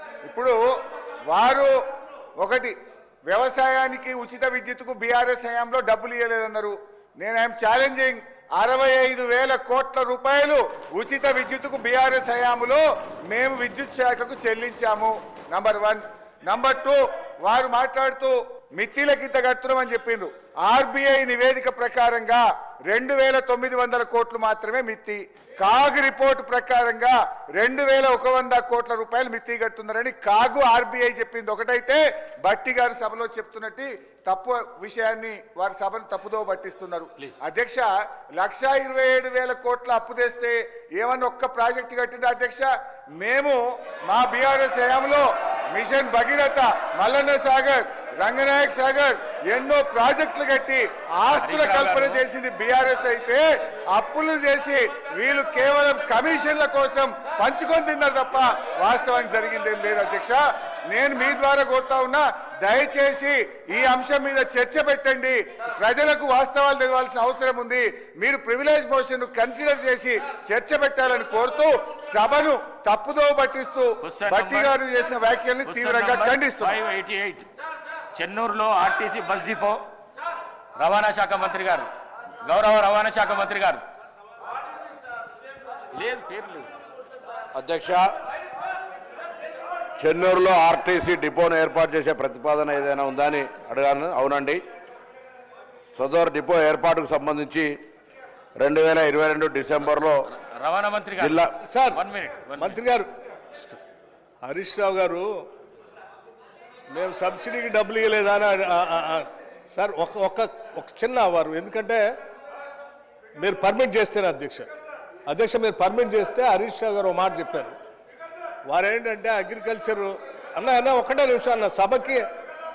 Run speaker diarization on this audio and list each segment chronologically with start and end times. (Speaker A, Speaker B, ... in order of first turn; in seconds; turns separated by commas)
Speaker A: 0.2-0.6, Speaker A: 1.3-1.7, Speaker A: 2.4-2.7, Speaker A: 3.3-76.8, Speaker B: 51.3-52.2, Speaker B: 74.0-74.8, Speaker B: 75.6-77.5, Speaker B: 78.1-79.8, Speaker B: 80.8-81.9, Speaker B: 82.4-83.8, Speaker B: 85.9-86.7, Speaker C: 87.5-88.1, Speaker C: 90.0-94.6, Speaker C: 96.0-97.8, Speaker C: 98.6-100.2, Speaker B: 100.3-102.8, Speaker C: 101.2-101.6, Speaker D: 101.6-102.0, Speaker D: 102.5-103.8, Speaker D: 104.4-105.4, Speaker D: 106.9-112.0, Speaker D: 113.4-114.7, Speaker D: 115.3-117.8, Speaker D: 118.7-122.2